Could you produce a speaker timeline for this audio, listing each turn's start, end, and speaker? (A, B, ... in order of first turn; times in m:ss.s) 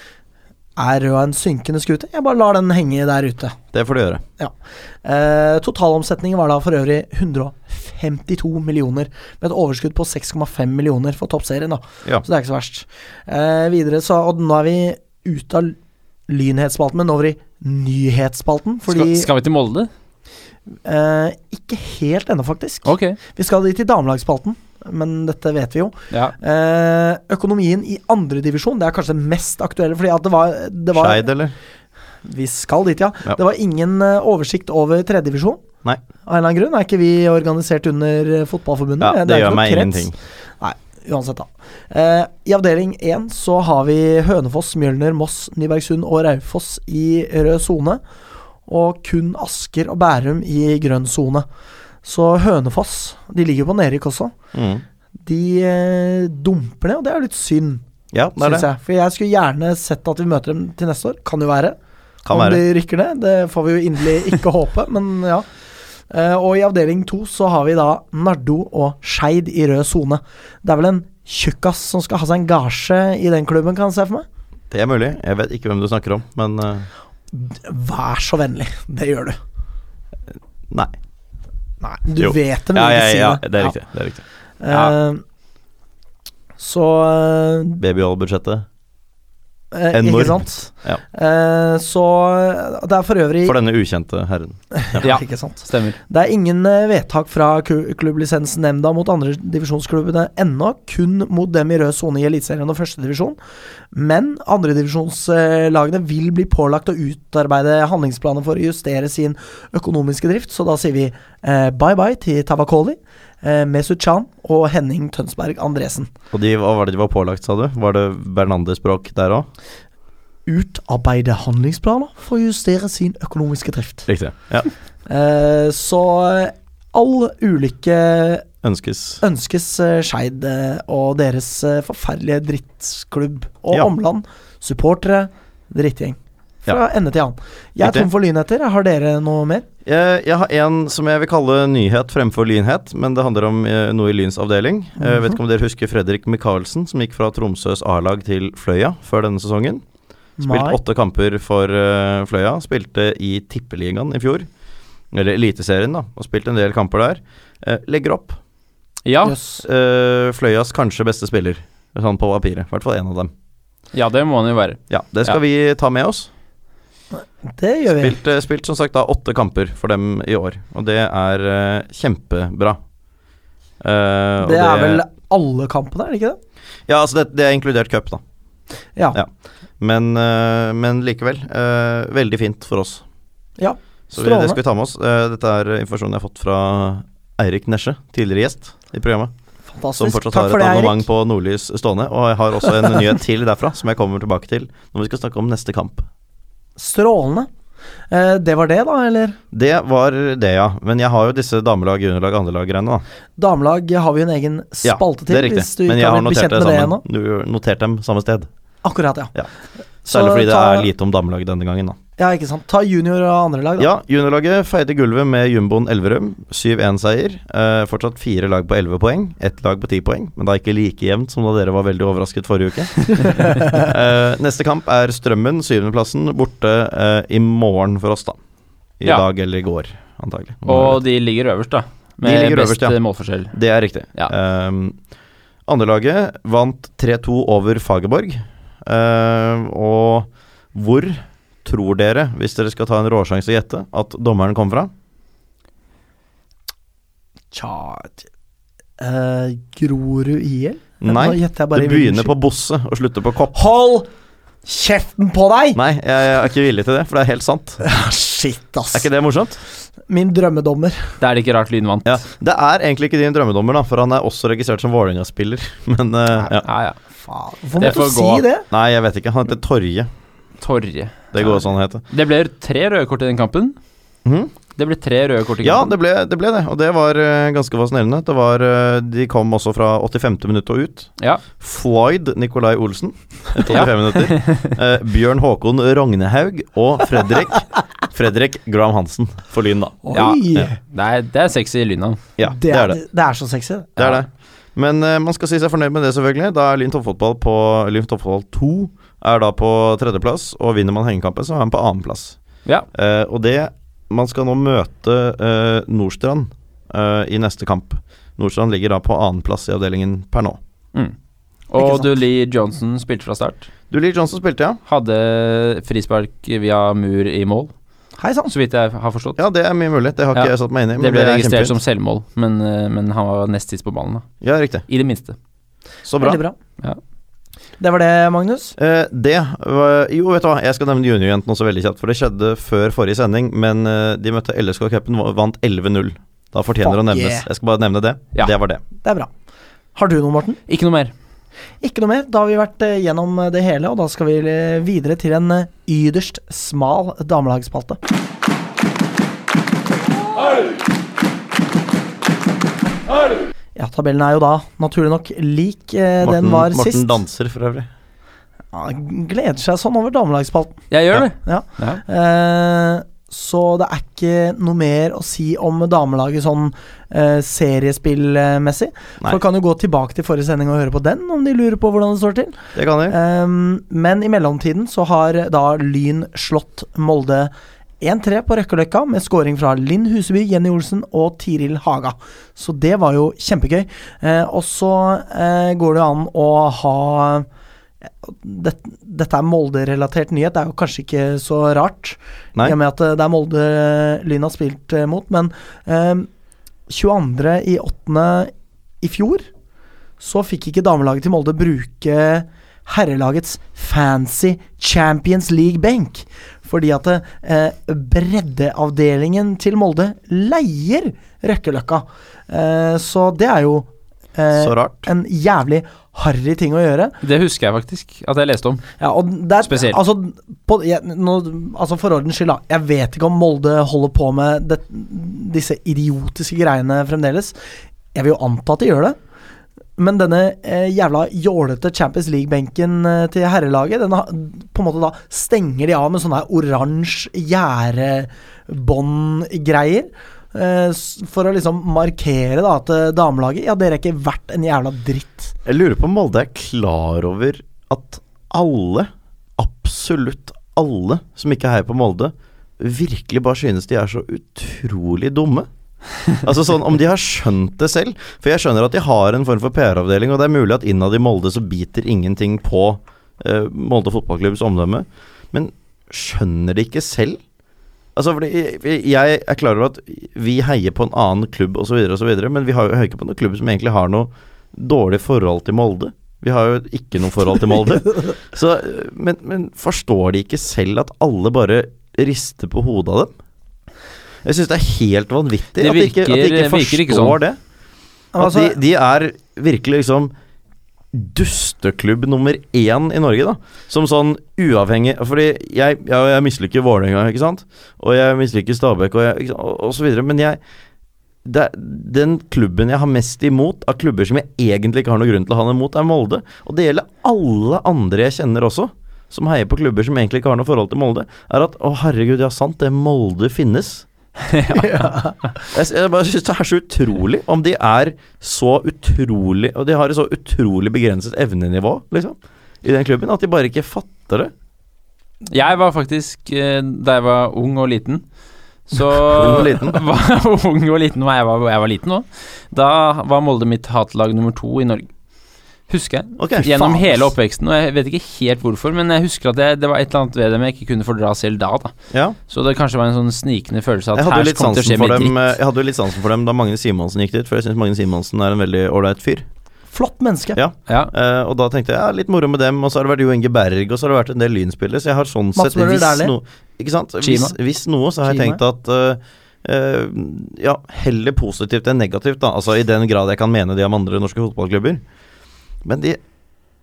0:00.8-0:03.6 A
0:03.7-0:04.2 B
0:04.4-0:15.8 A
0:16.3-0:19.3 A
0:18.9-0:19.9 C
0:20.8-0:31.3 A
0:22.8-0:23.2 C
0:30.9-0:31.5 B
0:32.2-0:35.6 A
0:36.2-0:48.0 A
0:39.0-0:40.2 B
0:48.7-0:51.4 A
0:52.0-0:54.3 A
0:54.5-0:54.8 B
0:55.2-0:57.8 A
0:58.1-0:58.7 B
0:58.4-1:01.8 A
1:02.2-1:02.6 B
1:02.3-1:05.4 A
1:06.1-1:14.2 A
1:14.7-1:16.9 B
1:17.3-1:19.4 A
1:20.7-1:20.9 B
1:21.8-1:23.7 A
1:22.2-1:24.2 B
1:24.6-1:25.2 A
1:26.6-1:27.8 A
1:27.8-1:28.6 B
1:29.7-1:33.6 A
1:29.9-1:31.0 B
1:33.4-1:35.0 B
1:34.7-1:43.4 A
1:35.0-1:36.0 C
1:43.9-1:56.1 A
1:56.3-1:59.5 B
2:00.5-2:04.1 A
2:04.1-2:04.7 B
2:05.1-2:08.4 A
2:08.6-2:09.2 B
2:09.2-2:19.6 A
2:17.8-2:18.1 B
2:19.8-2:29.8 B
2:25.0-2:25.4 A
2:30.4-2:30.8 A
2:30.4-2:34.5 B
2:35.1-2:38.4 B
2:39.0-2:39.3 C
2:39.2-2:39.6 A
2:39.6-2:43.3 B
2:43.9-2:45.4 C
2:44.9-2:46.3 B
2:47.4-2:48.1 A
2:48.0-2:52.8 B
2:53.8-2:55.0 B
2:54.4-2:56.4 A
2:56.9-2:58.2 B
2:59.8-3:03.0 B
3:03.6-3:04.6 A
3:04.1-3:09.3 B
3:09.7-3:11.0 A
3:10.0-3:16.0 B
3:16.8-3:17.5 A
3:18.1-3:19.4 A
3:19.5-3:23.0 B
3:23.4-3:27.0 A
3:24.8-3:28.5 B
3:28.8-3:29.3 A
3:30.0-3:30.9 A
3:30.0-3:32.0 B
3:32.2-3:33.9 A
3:33.8-3:48.4 B
3:49.0-3:51.0 B
3:50.6-3:53.5 C
3:52.2-3:53.0 B
3:53.5-3:55.0 B
3:55.7-4:04.9 B
4:07.5-4:08.3 A
4:09.0-4:12.3 A
4:11.0-4:13.6 B
4:13.5-4:14.1 A
4:14.6-4:15.8 A
4:15.7-4:17.8 B
4:17.8-4:19.1 A
4:18.9-4:19.6 B
4:20.1-4:21.2 A
4:21.2-4:22.2 C
4:22.0-4:26.6 B
4:26.6-4:27.0 C
4:27.2-4:28.7 A
4:27.8-4:28.4 C
4:28.7-4:30.1 B
4:30.6-4:31.5 C
4:31.3-4:32.0 B
4:32.1-4:33.8 C
4:34.2-4:34.5 B
4:34.8-4:35.9 C
4:35.6-4:50.0 B
4:43.7-4:44.7 C
4:50.0-4:50.8 A
4:50.1-4:52.2 C
4:52.4-4:53.0 B
4:52.4-4:54.0 A
4:54.0-5:02.4 B
5:02.9-5:10.6 B
5:11.7-5:13.7 C
5:11.8-5:12.2 A
5:13.9-5:14.8 B
5:14.9-5:17.7 C
5:18.2-5:18.5 A
5:18.5-5:19.4 C
5:19.4-5:21.8 B
5:20.3-5:24.3 C
5:24.4-5:24.8 B
5:24.9-5:25.4 C
5:26.0-5:26.4 B
5:26.2-5:26.6 A
5:27.8-5:28.7 A
5:28.8-5:38.8 B
5:36.8-5:37.5 A
5:39.0-5:39.3 A
5:39.9-5:40.6 A
5:40.7-5:41.1 C
5:41.8-5:48.0 A
5:53.8-5:57.1 A
5:56.2-5:57.9 B
5:58.7-6:00.8 A
6:00.9-6:02.0 C
6:01.4-6:27.5 A
6:12.7-6:13.2 B
6:28.2-6:36.3 A
6:36.9-6:39.5 A
6:40.2-6:57.2 A
6:54.5-6:55.1 B
6:57.2-6:58.8 C
6:59.0-7:07.5 A
6:59.6-7:00.0 C
7:08.1-7:09.2 A
7:10.0-7:25.5 A
7:25.6-7:35.7 B
7:36.4-7:47.4 B
7:48.1-8:03.3 B
8:04.4-8:07.6 B
8:05.8-8:07.4 C
8:08.3-8:08.8 A
8:08.4-8:10.3 B
8:11.1-8:20.6 B
8:21.4-8:34.0 B
8:34.7-8:35.5 A
8:35.7-8:44.5 B
8:45.5-8:48.2 C
8:48.9-8:55.1 C
8:49.2-8:50.0 B
8:55.9-9:01.9 C
8:56.4-8:57.3 B
9:02.1-9:02.4 B
9:02.5-9:05.5 C
9:04.1-9:09.4 B
9:09.9-9:10.6 A
9:10.5-9:25.0 B
9:15.5-9:16.3 A
9:17.2-9:17.5 C
9:18.2-9:18.6 A
9:25.8-9:26.2 B